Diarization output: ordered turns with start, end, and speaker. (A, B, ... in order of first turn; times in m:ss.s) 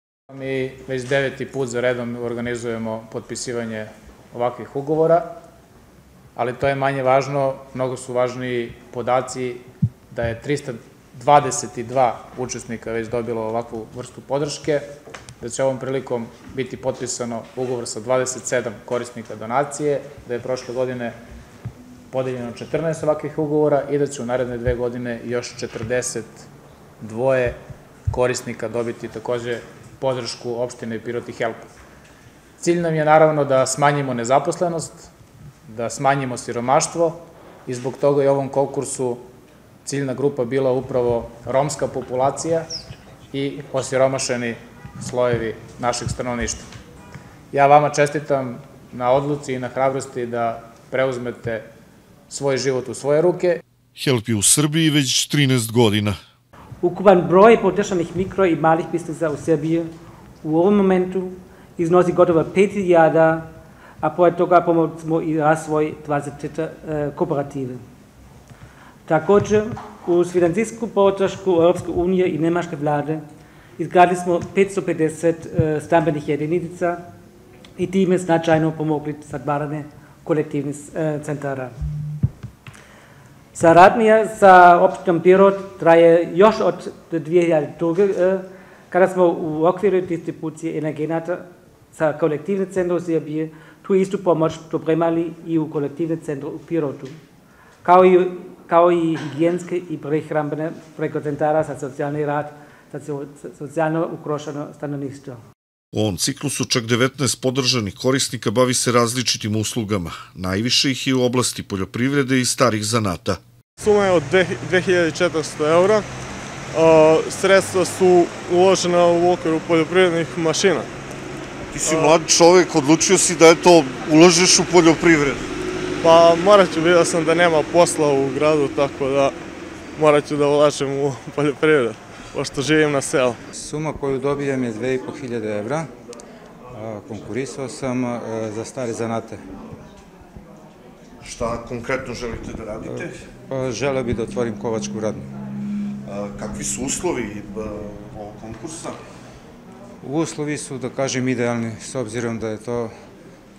0:00.3-0:05.3 A
0:06.4-0:14.8 A
0:15.4-0:21.2 A
0:22.1-0:26.5 A
0:27.0-0:27.6 A
0:28.1-0:31.6 A
0:32.6-0:35.1 A
0:35.7-0:39.2 A
0:39.8-0:42.7 A
0:43.3-0:46.7 A
0:47.5-0:51.6 A
0:52.3-0:53.6 A
0:54.0-0:56.2 B
0:56.8-0:59.9 C
1:00.4-1:07.8 C
1:09.1-1:13.2 C
1:13.8-1:17.0 C
1:17.8-1:21.8 C
1:23.5-1:37.2 C
1:37.8-1:45.4 C
1:45.9-1:53.4 B
1:53.8-1:56.1 D
1:56.7-2:00.9 D
2:01.7-2:05.5 B
2:01.8-2:02.2 D
2:06.0-2:09.4 D
2:10.0-2:13.4 D
2:13.6-2:15.9 E
2:16.7-2:19.4 E
2:21.2-2:23.2 B
2:22.8-2:25.3 E
2:26.1-2:29.0 B
2:30.0-2:32.9 E